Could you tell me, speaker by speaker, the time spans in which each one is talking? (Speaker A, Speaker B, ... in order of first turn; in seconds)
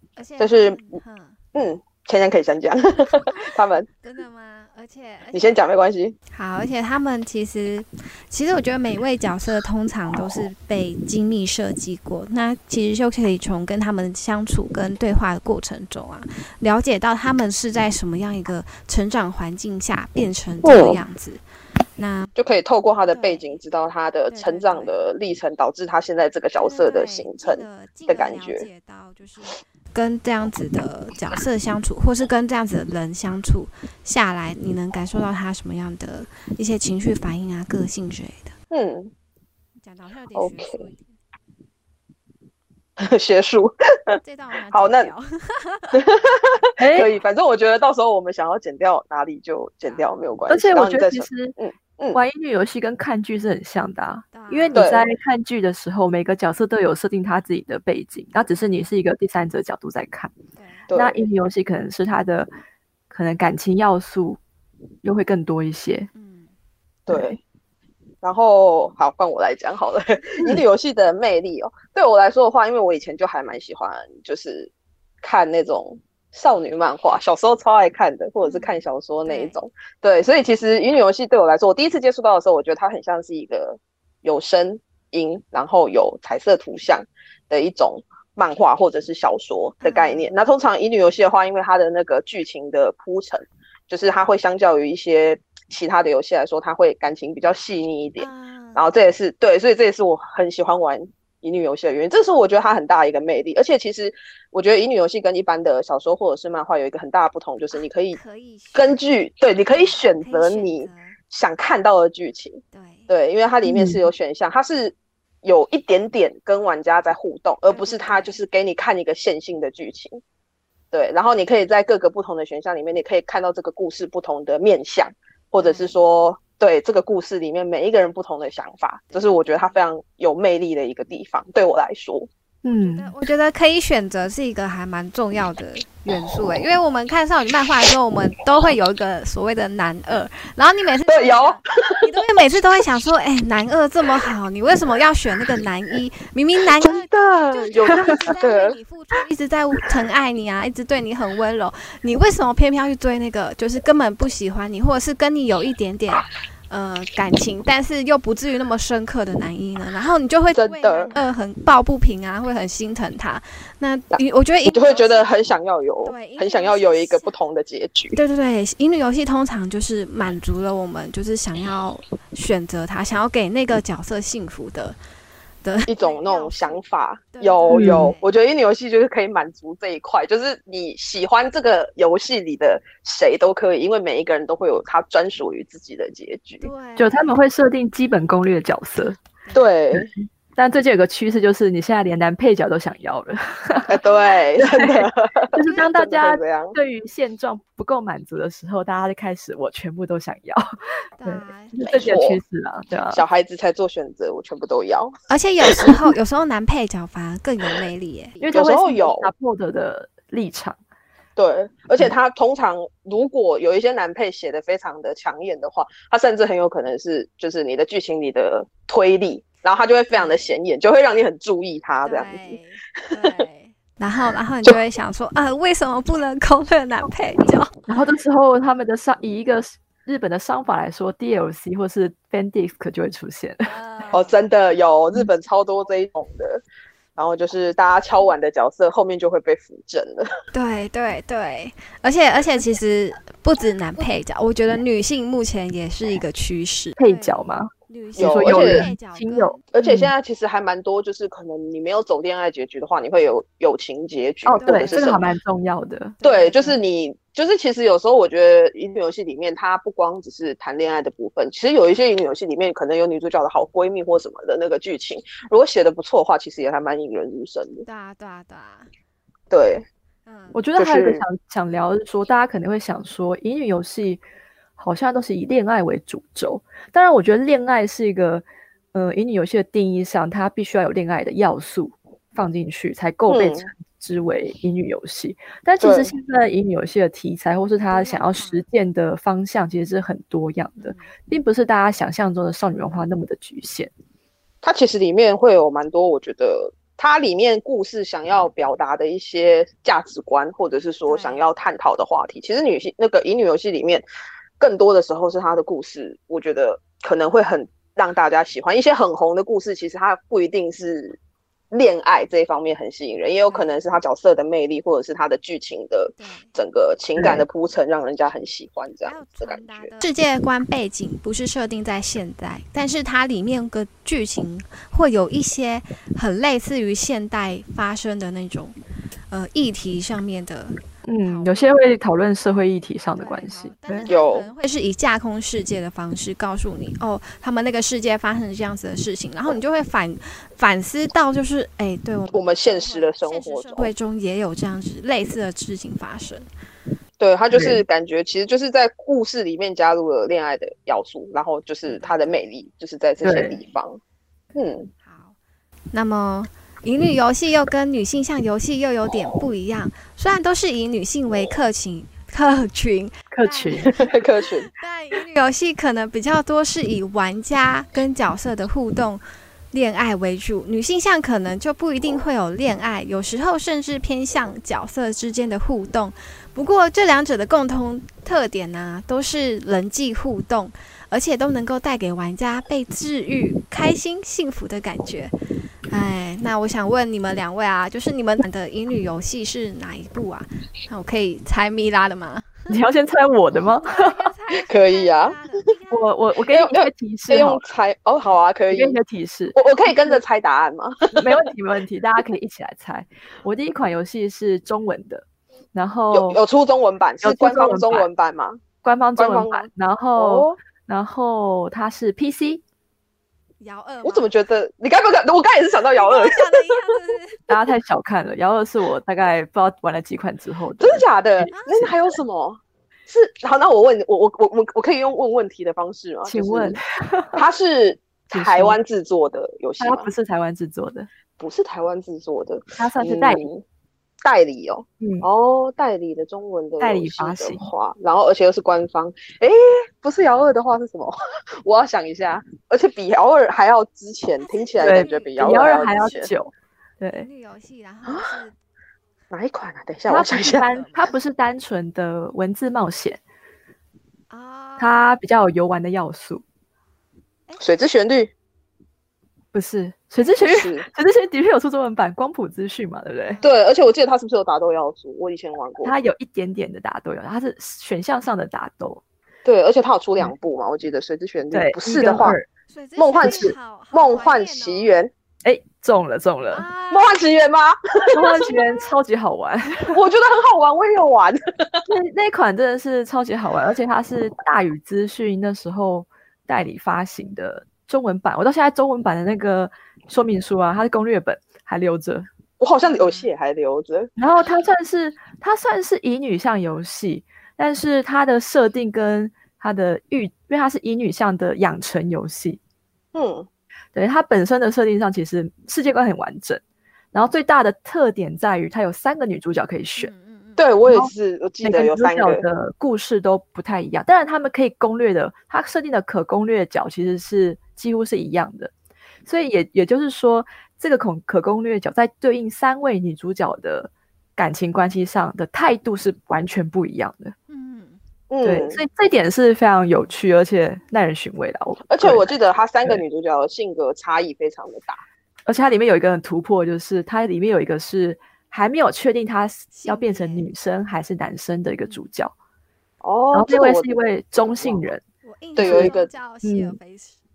Speaker A: 0.2-1.4, 4.0-5.6, 6.3-21.4, 22.0-22.3, 23.1-23.6, 24.3-24.9, 26.6-38.5, 39.8-41.1, 44.2-46.0, 54.3-54.9, 60.6-60.9, 66.1-66.5, 78.4-79.6, 89.8-90.3, 98.2-98.9, 107.7-109.0, 109.6-111.2, 112.7-113.1, 117.7-118.4, 125.6-125.9, 129.1-129.8, 132.7-165.3, 166.0-167.3, 168.2-175.0, 175.6-176.8, 177.3-178.3, 186.6-187.3, 201.2-201.8, 205.3-208.5, 222.1-227.7, 233.7-234.3, 240.5-249.6, 254.6-255.2, 256.2-256.8, 267.9-268.9, 270.3-270.6, 287.8-288.6, 290.8-291.1, 301.1-301.4, 313.5-313.7, 316.2-316.5, 319.1-328.8, 329.3-331.9, 333.2-346.5, 351.9-352.4, 353.4-353.7, 355.0-355.4, 355.9-385.3, 385.9-392.7, 393.8-396.2, 413.6-414.5, 415.9-417.5, 421.5-421.9, 444.4-445.9, 447.2-448.6, 450.4-451.1, 454.3-455.1, 463.2-463.6, 472.7-474.9, 476.5-477.2, 478.3-478.8, 492.9-493.3, 510.0-510.7, 527.5-528.0, 539.7-540.5, 545.2-547.2
Speaker B: 0.4-1.0, 1.5-3.9, 5.3-6.2, 20.6-21.0, 22.4-28.7, 38.7-39.1, 40.4-40.8, 43.0-44.2, 44.7-45.1, 45.9-52.2, 54.7-55.0, 60.9-61.3, 67.1-67.4, 68.2-74.7, 75.2-108.2, 108.7-120.2, 120.9-132.3, 141.1-142.1, 146.7-148.8, 160.6-161.2, 164.1-168.2, 175.9-186.7, 189.5-190.1, 193.9-196.8, 201.8-202.4, 203.1-206.0, 208.5-209.3, 211.4-223.4, 234.1-236.6, 237.2-240.3, 248.2-248.9, 249.7-255.2, 256.2-267.9, 269.5-269.9, 270.8-271.2, 283.3-283.7, 285.8-286.1, 294.6-304.1, 304.6-311.2, 311.7-320.0, 334.1-334.5, 342.3-343.9, 347.2-354.0, 354.6-354.9, 363.8-364.7, 394.5-395.4, 396.5-399.0, 399.5-401.4, 406.1-408.6, 409.2-410.6, 414.0-416.9, 420.8-426.8, 427.4-430.1, 431.4-433.6, 434.2-446.3, 448.1-448.4, 449.3-450.7, 457.6-458.3, 460.4-460.9, 463.4-465.9, 469.4-472.4, 473.0-475.1, 476.9-478.5, 479.9-481.8, 492.6-494.1, 503.1-503.5, 510.6-512.5, 528.3-528.8, 531.9-535.0, 543.0-544.8, 545.6-546.1
Speaker C: 46.8-47.1, 50.5-51.6, 52.1-60.3, 61.0-62.5, 63.1-64.4, 65.0-66.1, 67.1-67.4, 113.7-114.0, 132.6-133.2, 147.9-148.3, 177.7-178.1, 187.0-189.2, 189.9-194.0, 194.6-203.2, 208.4-210.8, 227.9-233.7, 247.0-250.1, 254.4-256.2, 270.5-274.2, 274.8-293.9, 317.2-317.4, 331.1-334.1, 347.5-347.8, 353.2-353.6, 363.3-363.9, 392.7-394.3, 395.9-397.6, 398.7-400.2, 401.1-406.4, 407.2-408.1, 408.8-412.6, 417.5-421.9, 426.2-427.4, 428.3-428.8, 429.8-431.1, 432.8-433.4, 435.0-435.3, 436.8-437.7, 444.8-447.3, 450.1-453.2, 454.8-456.4, 459.5-463.4, 465.8-469.0, 471.5-472.5, 473.2-473.5, 475.4-476.7, 478.1-480.0, 481.9-492.3, 494.2-502.6, 503.9-506.6, 507.1-510.1, 510.9-518.7, 519.3-527.3, 528.4-532.3, 535.5-542.3, 543.3-545.0, 545.6-545.9, 546.4-546.8